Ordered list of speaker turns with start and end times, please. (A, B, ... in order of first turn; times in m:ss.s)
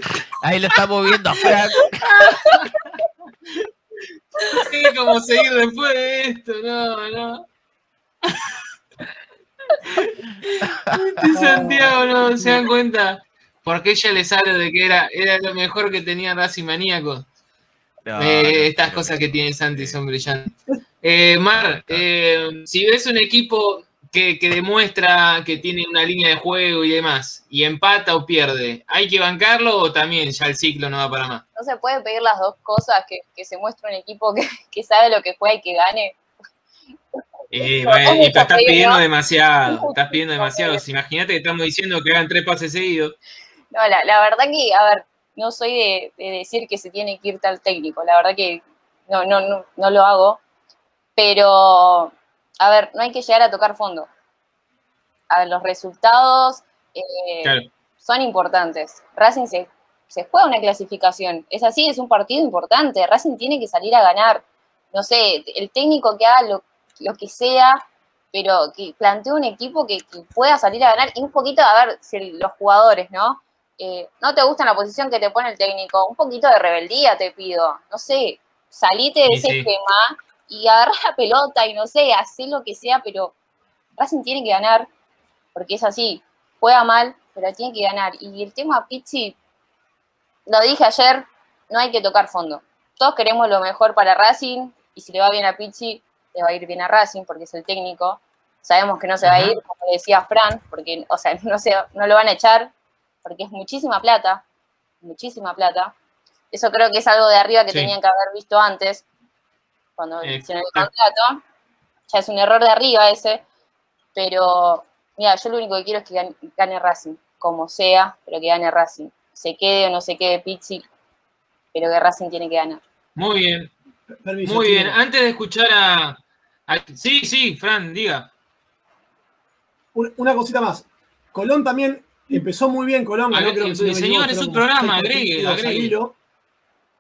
0:00.4-0:02.4 A
0:02.4-0:02.7 B
0:04.5-0:07.4 B
0:09.9-0:17.2 B
0:10.6-0:11.1 A
0:11.3-0:12.6 C
0:18.0-0:20.0 A
0:18.2-0:31.4 B
0:21.6-0:22.0 A
0:31.6-0:36.2 D
0:37.5-0:43.2 B
0:37.8-0:39.0 D
0:39.6-0:40.8 D
0:43.7-0:50.4 D
0:51.2-0:54.1 D
0:55.3-1:23.3 D
1:19.3-1:19.7 B
1:24.0-1:24.9 D
1:25.5-1:29.4 D
1:30.5-1:42.7 D
1:39.2-1:39.6 B
1:43.2-1:44.4 D
1:45.0-1:45.9 D
1:46.5-1:49.0 D
1:50.0-1:51.4 D
1:50.2-1:50.9 B
1:52.1-1:53.4 D
1:54.1-2:00.8 D
2:01.7-2:02.8 D
2:03.2-2:03.7 B
2:04.1-2:05.0 C
2:04.4-2:08.3 B
2:09.9-2:16.1 C
2:13.3-2:15.9 B